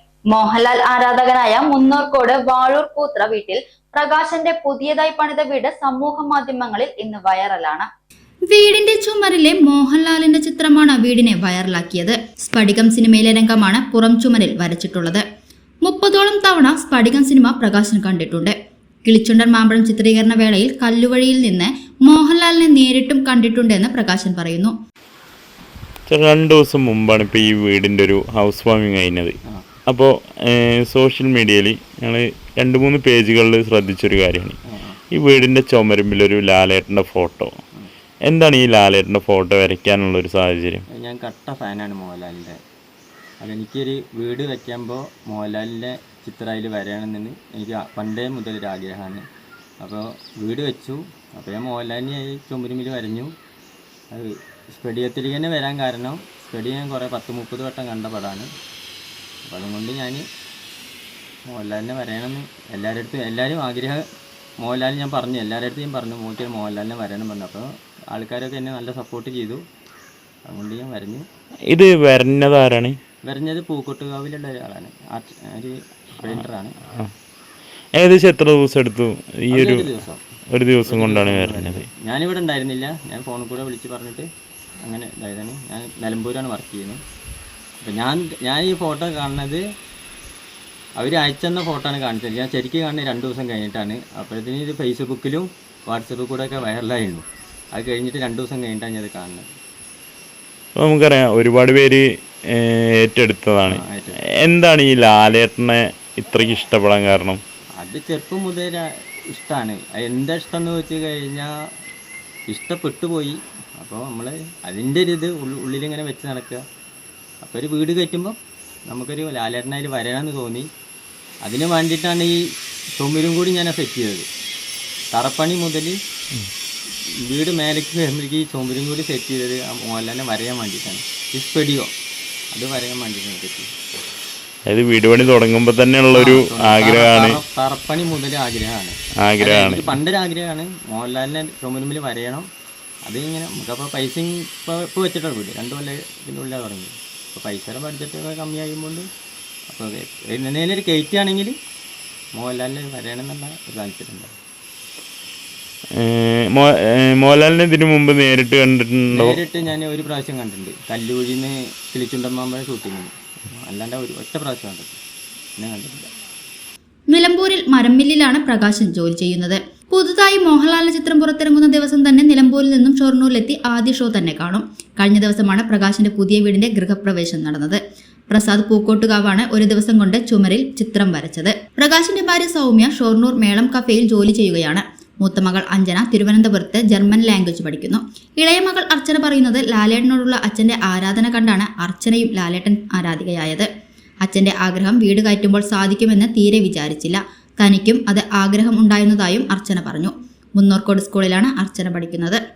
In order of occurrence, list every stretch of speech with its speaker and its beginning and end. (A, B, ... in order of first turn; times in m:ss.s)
0:00.3-0:07.8 A
0:08.5-0:15.2 B
0:15.8-0:18.5 B
0:19.0-0:24.7 B
0:26.1-0:29.4 C
0:29.9-0:34.6 C
0:34.7-0:35.0 D
0:35.1-0:37.6 C
0:38.3-0:40.8 C
0:41.0-0:42.6 D
0:43.4-0:49.2 D
0:49.8-0:53.3 D
0:54.1-0:58.5 D
0:59.5-1:00.2 D
1:01.5-1:04.0 D
1:04.6-1:09.6 D
1:10.5-1:11.2 D
1:11.7-1:13.0 C
1:13.2-1:16.8 D
1:18.0-1:19.8 C
1:19.5-1:20.2 D
1:20.5-1:21.9 C
1:20.9-1:24.3 D
1:24.8-1:27.0 D
1:27.8-1:29.6 D
1:31.0-1:39.4 D
1:40.8-1:43.8 C
1:43.7-1:44.2 D
1:44.4-1:47.4 C
1:47.8-1:51.5 D
1:52.5-1:56.6 D
1:57.4-1:58.3 D
1:58.9-2:00.7 D
2:01.4-2:02.4 D
2:03.0-2:04.3 D
2:05.1-2:06.0 D
2:07.2-2:11.9 D
2:12.5-2:13.7 D
2:14.7-2:17.4 C
2:16.1-2:22.5 D
2:19.2-2:20.0 C
2:23.0-2:29.0 D
2:29.7-2:31.6 D
2:32.3-2:34.3 D
2:36.0-2:39.4 C
2:39.1-2:45.0 D
2:45.6-2:46.1 D
2:47.1-2:57.8 B
2:58.3-3:13.7 B
3:14.2-3:22.4 B